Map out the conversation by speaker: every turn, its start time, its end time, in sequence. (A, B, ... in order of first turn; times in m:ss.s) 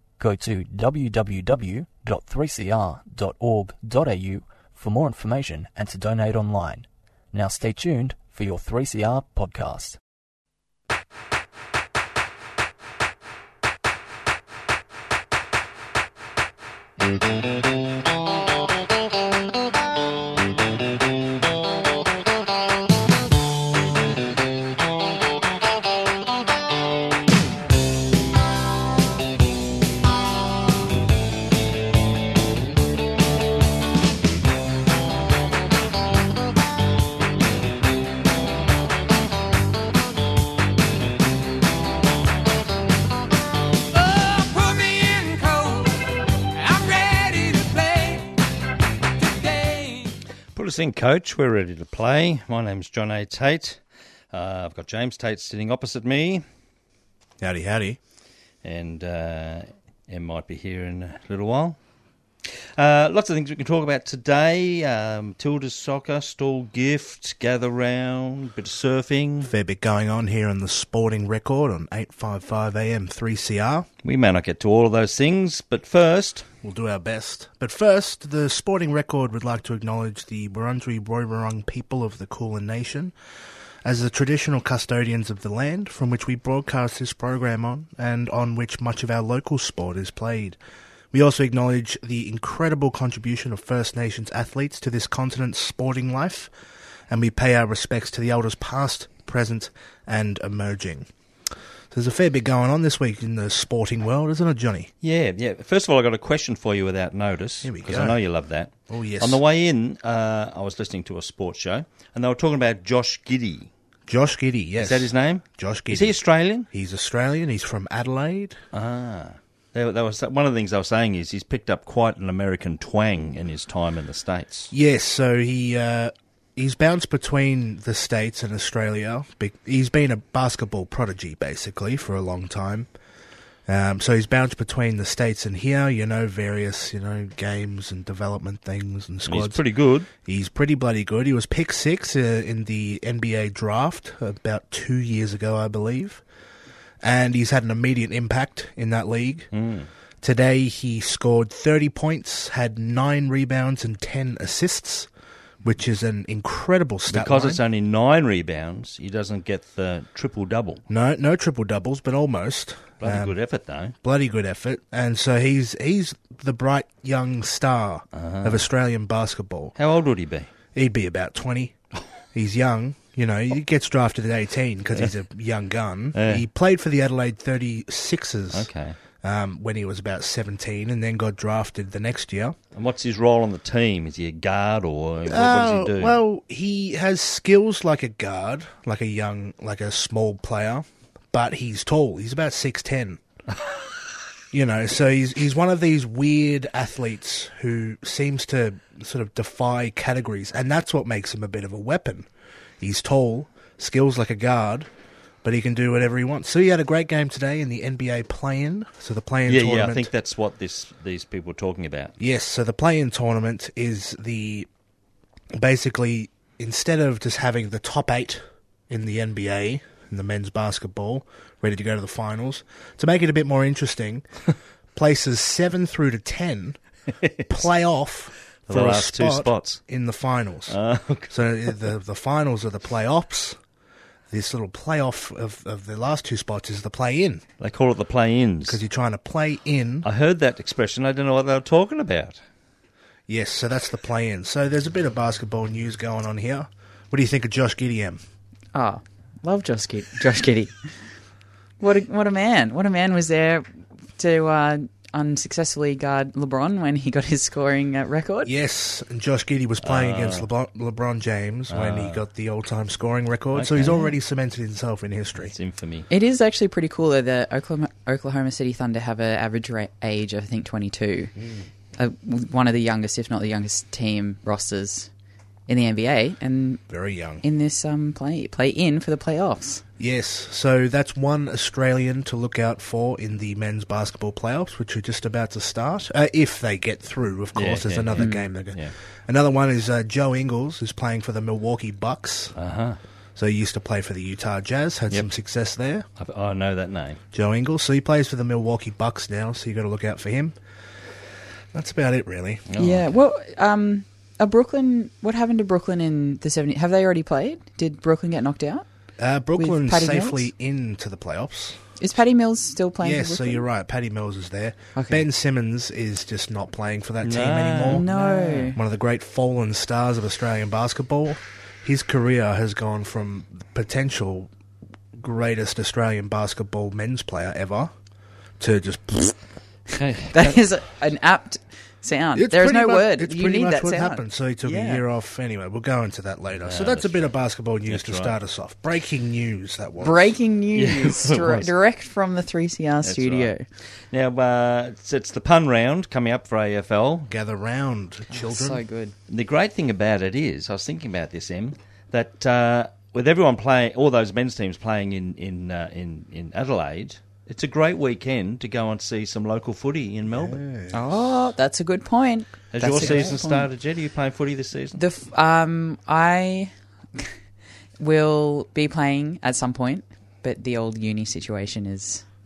0:00.2-0:10.0 A
0:43.9-0:48.4 B
0:49.2-0:50.2 B
0:50.5-0:53.8 C
0:54.3-0:56.4 C
0:57.4-0:58.0 D
0:58.6-1:01.8 C
1:02.8-1:09.5 C
1:09.4-1:13.9 D
1:14.0-1:16.5 C
1:16.6-1:23.1 D
1:23.8-1:30.6 D
1:31.1-1:36.5 D
1:37.1-1:41.1 D
1:41.9-1:44.9 D
1:45.0-1:53.7 C
1:47.6-1:48.2 D
1:48.9-1:49.4 D
1:54.1-1:58.6 D
1:54.8-1:56.7 C
1:58.7-2:04.7 C
2:04.7-2:12.9 D
2:13.7-2:19.6 D
2:19.2-2:20.1 C
2:20.2-2:26.2 D
2:27.0-2:29.5 D
2:29.5-2:29.9 C
2:30.2-2:35.1 D
2:35.6-2:37.6 D
2:37.1-2:40.8 C
2:40.9-2:43.4 D
2:43.0-2:43.9 C
2:44.0-2:49.7 D
2:48.1-2:48.6 C
2:49.8-2:50.5 C
2:50.7-2:51.7 D
2:52.3-2:58.7 D
2:56.1-2:56.4 C
2:58.5-2:59.0 C
2:59.2-3:02.6 D
3:02.7-3:06.2 C
3:05.3-3:13.2 D
3:14.5-3:22.3 D
3:22.8-3:24.9 D
3:25.4-3:30.1 D
3:29.5-3:32.1 C
3:32.2-3:34.7 D
3:35.6-3:44.2 D
3:44.9-3:46.8 D
3:47.2-3:47.6 C
3:47.5-3:50.8 D
3:48.7-3:49.8 C
3:50.7-3:51.3 C
3:51.3-3:53.6 D
3:54.3-3:57.4 D
3:57.6-3:58.8 C
3:58.6-4:00.1 D
4:00.0-4:02.4 C
4:03.3-4:08.2 D
4:08.7-4:10.7 E
4:11.8-4:18.5 E
4:18.4-4:25.5 D
4:19.8-4:20.5 C
4:21.7-4:22.2 C
4:23.5-4:24.0 C
4:25.5-4:26.1 C
4:26.1-4:31.3 E
4:32.0-4:35.1 E
4:35.7-4:36.8 E
4:36.9-4:37.4 D
4:37.4-4:39.8 E
4:40.0-4:52.5 D
4:47.5-4:48.9 C
4:48.2-4:48.4 E
4:52.6-4:53.0 C
4:53.4-4:56.0 D
4:56.2-4:57.2 C
4:57.3-5:00.6 D
5:01.7-5:02.6 D
5:02.7-5:03.0 C
5:02.8-5:08.8 E
5:09.2-5:11.8 D
5:09.6-5:10.5 E
5:12.0-5:13.6 E
5:13.0-5:18.1 D
5:15.0-5:15.2 E
5:17.2-5:18.7 C
5:17.9-5:18.8 E
5:18.7-5:24.5 D
5:25.1-5:27.9 D
5:28.6-5:29.4 D
5:29.9-5:30.6 C
5:30.3-5:35.0 E
5:32.3-5:40.3 D
5:36.6-5:37.3 C
5:37.9-5:38.3 C
5:40.0-5:43.6 E
5:40.7-5:41.7 C
5:43.0-5:43.5 C
5:44.1-5:47.3 C
5:47.3-5:48.8 D
5:48.3-5:49.1 E
5:49.3-6:00.6 C
6:00.3-6:01.2 D
6:00.9-6:03.7 E
6:02.7-6:05.0 C
6:02.9-6:03.3 D
6:05.0-6:07.3 E
6:08.0-6:12.2 E